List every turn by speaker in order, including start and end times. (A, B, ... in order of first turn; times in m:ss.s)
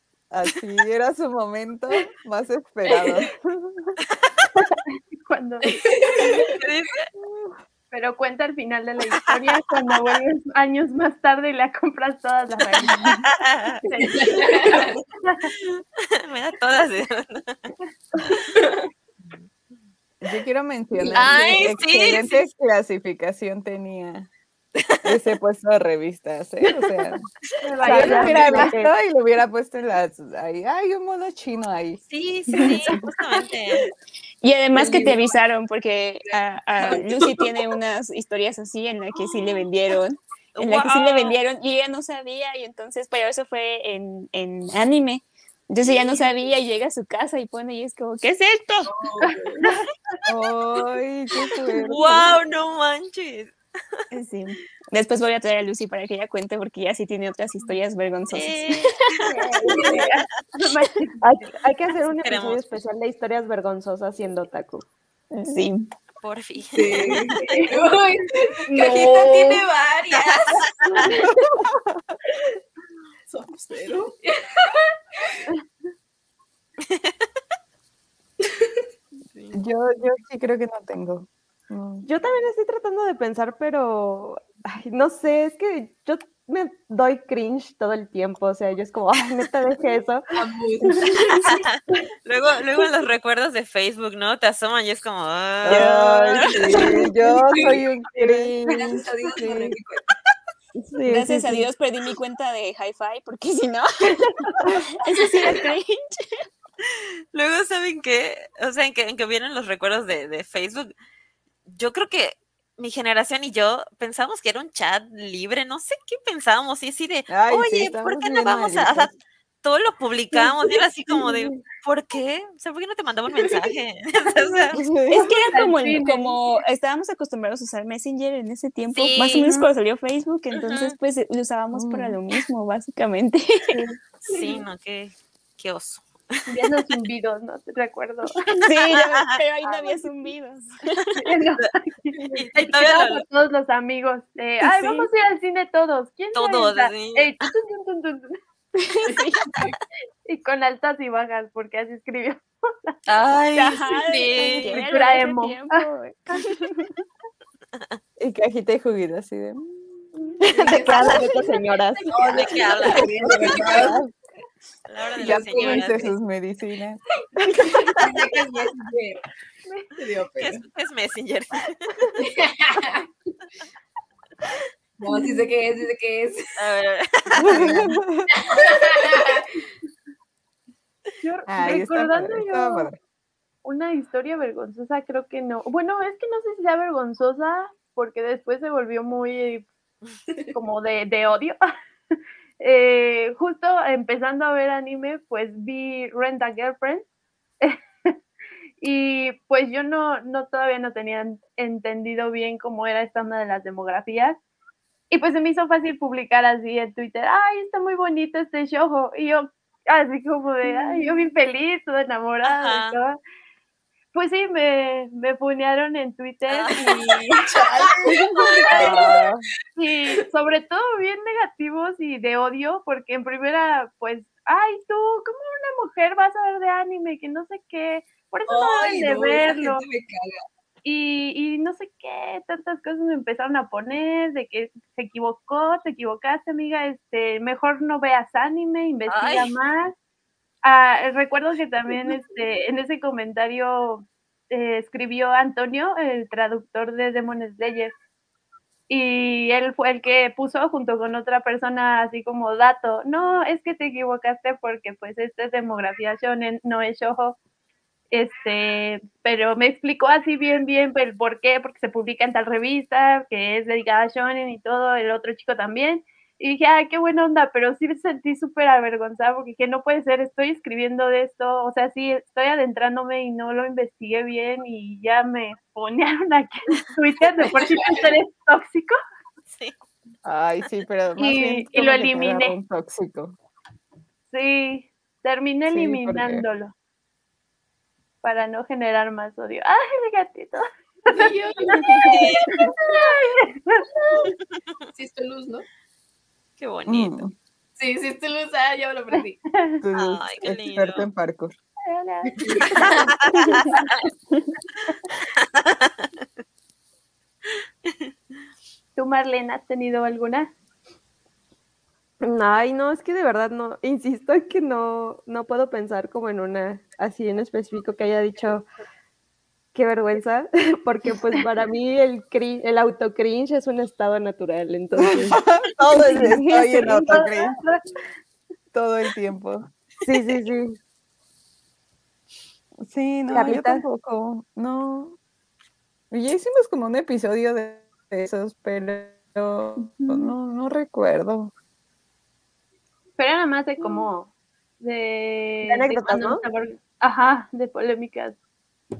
0:00.3-0:04.0 A
0:02.9-0:03.3 B
0:05.3-0:06.3 C
0:05.7-0:06.2 B
0:06.5-0:07.1 D
0:07.9-0:13.1 C
0:13.0-0:13.8 D
0:13.9-0:15.5 C
0:14.0-0:15.0 B
0:16.2-0:17.7 D
0:20.2-0:24.3 A
0:21.1-0:22.4 D
0:21.2-0:21.5 B
0:25.0-0:27.2 A
0:27.6-0:28.8 C
0:27.8-0:28.9 E
0:27.8-0:32.0 A
0:32.1-0:33.9 D
0:32.6-0:33.0 F
0:34.4-0:48.9 F
0:34.8-0:35.2 B
0:36.8-0:37.5 B
0:40.6-0:41.4 D
0:46.0-0:46.3 B
0:48.8-0:49.6 G
0:49.3-0:49.8 C
0:50.3-0:52.3 A
0:51.8-0:53.6 D
0:54.1-0:58.8 F
0:58.3-0:59.4 D
0:59.3-1:01.2 C
0:59.7-1:00.0 B
1:01.2-1:04.9 E
1:02.2-1:02.6 D
1:05.3-1:05.9 F
1:06.2-1:07.3 D
1:06.7-1:07.4 G
1:06.9-1:11.2 B
1:07.4-1:07.7 C
1:08.8-1:09.1 E
1:08.8-1:09.6 G
1:13.3-1:14.2 G
1:14.2-1:14.8 B
1:19.3-1:19.6 D
1:19.5-1:22.1 A
1:22.0-1:30.2 E
1:30.4-1:31.6 B
1:31.5-1:37.0 D
1:35.6-1:39.8 A
1:36.7-1:40.0 B
1:39.4-1:39.8 E
1:40.8-1:41.7 A
1:41.1-1:44.3 F
1:45.0-1:46.4 F
1:46.8-1:50.9 D
1:51.7-2:04.8 D
1:57.3-1:59.1 A
2:04.8-2:05.3 A
2:05.1-2:13.8 F
2:05.5-2:06.4 C
2:09.0-2:09.5 D
2:10.5-2:11.0 D
2:11.7-2:12.2 A
2:14.2-2:16.7 D
2:14.3-2:14.6 B
2:16.5-2:18.5 C
2:18.6-2:21.0 F
2:18.9-2:19.2 D
2:21.2-2:28.4 C
2:22.3-2:23.2 D
2:24.6-2:25.1 F
2:26.3-2:27.5 D
2:29.0-2:29.5 F
2:30.3-2:32.9 C
2:33.1-2:34.8 D
2:33.6-2:36.9 F
2:34.4-2:35.9 C
2:38.2-2:40.0 A
2:40.4-2:42.5 E
2:40.6-2:41.3 B
2:42.1-2:44.0 D
2:42.1-2:43.9 B
2:42.8-2:44.0 G
2:43.4-2:44.1 A
2:44.9-2:46.2 D
2:45.2-2:45.6 G
2:45.2-2:45.9 B
2:45.5-2:47.6 A
2:47.5-2:49.2 B
2:50.0-2:50.6 G
2:50.4-2:52.0 D
2:52.2-2:53.1 B
2:55.0-2:56.6 B
2:56.6-2:57.9 D
2:57.4-2:58.3 A
2:58.4-2:59.4 B
3:01.2-3:02.9 C
3:01.5-3:03.0 A
3:03.6-3:09.7 C
3:10.5-3:11.6 C
3:12.6-3:17.1 C
3:17.6-3:18.1 C
3:18.8-3:24.4 C
3:25.1-3:33.2 C
3:32.4-3:33.0 D
3:34.1-3:37.5 C
3:36.5-3:37.2 D
3:37.4-3:39.1 G
3:38.7-3:39.1 C
3:38.9-3:39.4 A
3:39.8-3:49.8 C
3:48.5-3:50.4 B
3:50.8-3:59.9 C
3:59.1-3:59.5 D
4:00.6-4:08.0 C
4:08.9-4:17.4 C
4:18.1-4:39.0 C
4:39.5-4:39.8 D
4:40.2-4:43.4 A
4:41.2-4:42.6 C
4:44.3-4:46.7 C
4:45.7-4:46.4 A
4:48.2-4:51.1 C
4:51.3-4:52.1 B
4:51.8-4:53.9 C
4:52.0-4:52.6 D
4:55.0-4:55.7 B
4:56.6-4:57.2 D
4:56.9-4:57.3 A
4:57.8-4:59.4 B
4:59.2-4:59.8 C
4:59.8-5:01.5 A
4:59.9-5:01.1 D
5:01.9-5:02.9 C
5:02.4-5:03.1 B
5:03.3-5:03.6 D
5:03.5-5:03.8 C
5:05.6-5:05.9 D
5:09.0-5:10.5 C
5:12.2-5:18.7 E
5:19.8-5:25.4 E
5:25.0-5:27.6 A
5:26.1-5:27.8 C
5:28.7-5:29.7 A
5:30.0-5:30.8 E
5:32.9-5:35.2 A
5:33.3-5:33.8 E
5:36.1-5:41.5 A
5:39.8-5:40.3 C
5:43.2-5:44.3 C
5:44.8-5:48.4 C
5:45.6-5:46.4 E